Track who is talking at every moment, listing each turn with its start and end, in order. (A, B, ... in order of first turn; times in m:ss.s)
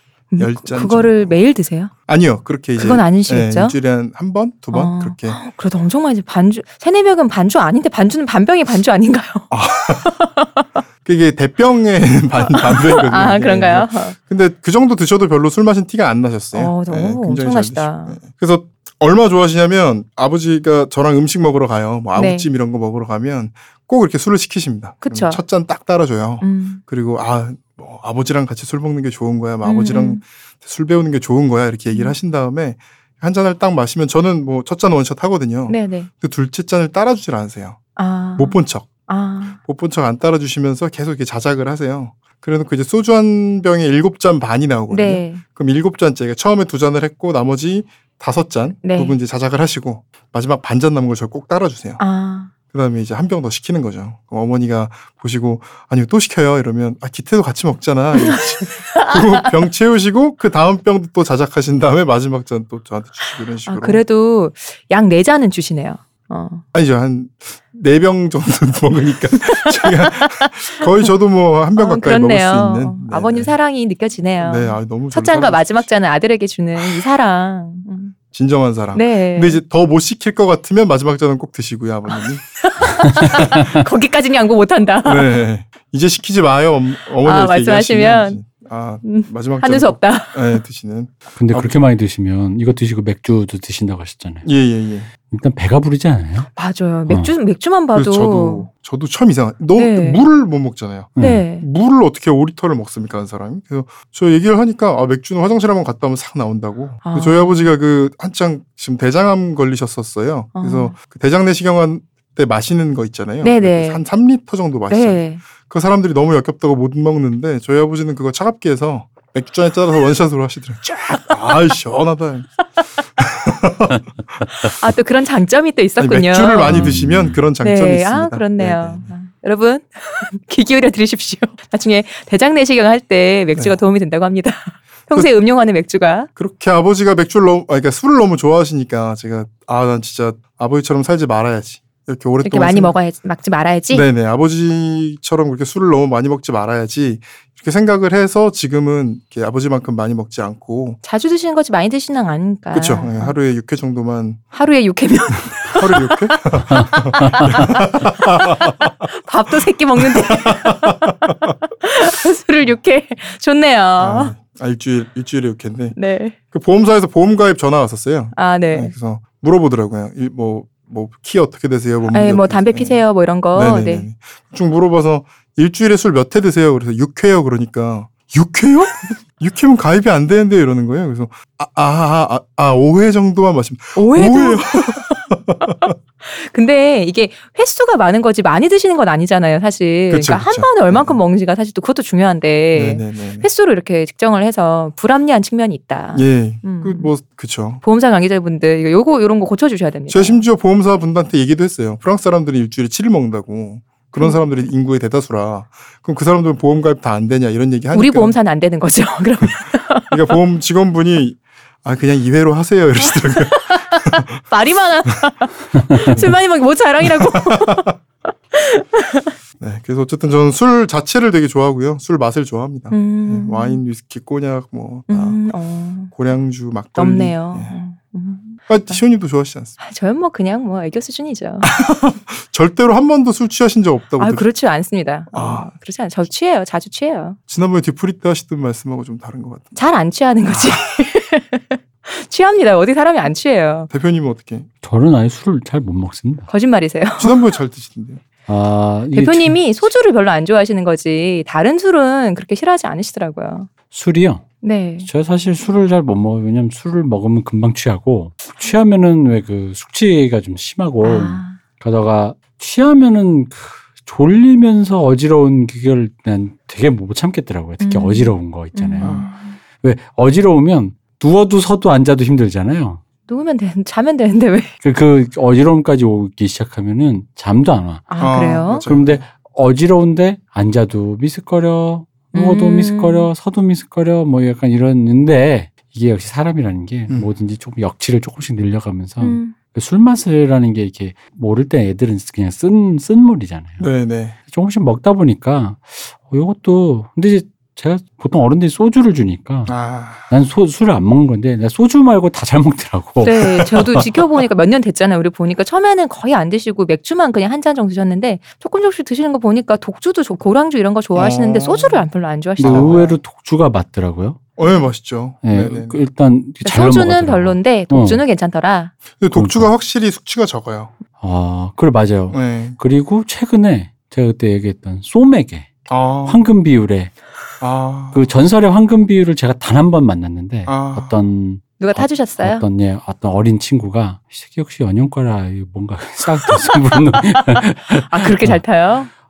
0:00.3-0:01.9 A
0:00.4-0:01.4 B
0:02.0-0:05.4 B
0:02.8-0:03.8 A
0:04.7-0:09.5 A
0:09.5-0:10.2 B
0:10.0-0:10.6 A
0:11.0-0:37.8 B
0:12.4-0:14.2 A
0:16.5-0:18.2 A
0:22.1-0:22.5 A
0:25.0-0:25.4 A
0:26.4-0:26.8 A
0:29.6-0:30.2 A
0:31.9-0:32.2 A
0:35.7-0:36.1 A
0:38.0-0:39.6 A
0:38.4-0:38.9 B
0:39.6-0:52.0 B
0:44.9-0:45.4 A
0:48.8-0:49.2 A
0:52.0-0:52.5 A
0:52.7-1:04.0 B
0:58.2-0:59.5 A
1:03.6-1:06.6 A
1:06.7-1:13.5 B
1:09.5-1:10.8 A
1:11.8-1:18.1 A
1:14.4-1:15.9 B
1:18.3-1:22.6 B
1:18.9-1:19.6 A
1:22.1-1:25.4 A
1:23.1-1:23.5 B
1:25.0-1:31.8 B
1:27.2-1:28.4 A
1:29.0-1:30.6 A
1:31.4-1:34.5 C
1:34.4-1:35.1 B
1:35.3-1:36.5 C
1:36.6-1:38.7 A
1:37.1-1:37.3 C
1:37.9-2:02.6 B
1:39.7-1:40.2 A
1:41.2-1:41.4 C
1:41.2-1:41.6 A
1:47.0-1:47.7 A
1:50.6-1:51.0 A
1:53.4-1:54.0 A
1:54.9-1:55.4 A
2:01.1-2:01.4 A
2:03.2-2:04.0 B
2:04.5-2:06.9 A
2:06.0-2:09.1 B
2:06.6-2:07.4 C
2:07.6-2:16.3 A
2:16.4-2:23.0 B
2:22.4-2:24.0 A
2:23.9-2:31.0 B
2:31.0-2:33.4 A
2:32.7-2:34.4 B
2:34.5-2:44.3 A
2:35.7-2:38.9 B
2:40.2-2:41.1 B
2:44.0-2:46.0 B
2:45.9-2:46.4 A
2:46.5-3:05.9 B
2:48.3-2:48.9 A
2:52.1-2:54.1 A
3:04.0-3:17.1 A
3:10.1-3:11.2 B
3:12.7-3:13.5 B
3:16.1-3:17.8 B
3:17.8-3:20.4 A
3:20.1-3:28.4 B
3:27.9-3:30.1 A
3:30.1-3:34.4 B
3:33.3-3:37.9 A
3:37.0-3:38.0 B
3:38.5-3:39.3 A
3:39.6-3:45.4 B
3:42.9-3:43.8 A
3:45.1-3:46.1 A
3:46.1-3:47.8 B
3:47.0-3:49.0 A
3:48.7-3:49.7 B
3:49.8-3:51.8 A
3:51.7-3:54.4 B
3:54.2-3:57.4 A
3:55.3-3:55.7 B
3:57.5-3:59.8 B
3:59.7-4:03.9 A
4:03.9-4:04.7 B
4:04.8-4:06.5 C
4:06.5-4:07.4 A
4:07.2-4:08.2 B
4:08.4-4:09.6 C
4:09.1-4:13.7 A
4:13.9-4:14.4 C
4:14.6-4:15.1 A
4:15.0-4:29.2 C
4:21.0-4:21.6 A
4:27.8-4:29.6 A
4:29.0-4:29.3 B
4:29.8-4:33.0 C
4:33.3-4:34.7 A
4:34.8-4:38.1 C
4:38.1-4:38.8 A
4:38.2-4:39.2 B
4:38.8-4:53.8 C
4:42.3-4:43.3 A
4:49.2-4:49.5 A
4:53.8-4:54.4 B
4:54.5-4:59.8 C
4:59.7-5:00.3 B
5:00.3-5:04.0 C
5:03.2-5:13.1 A
5:11.1-5:12.0 B
5:12.6-5:14.4 C
5:12.6-5:13.1 B
5:14.6-5:16.0 B
5:15.4-5:18.2 C
5:16.6-5:18.9 A
5:19.2-5:20.9 B
5:19.3-5:19.7 C
5:21.2-5:27.1 C
5:22.3-5:22.8 B
5:25.9-5:26.4 B
5:27.6-5:28.2 B
5:28.1-5:38.6 C
5:30.7-5:31.2 B
5:31.8-5:32.6 A
5:36.4-5:37.1 A
5:38.1-5:39.1 A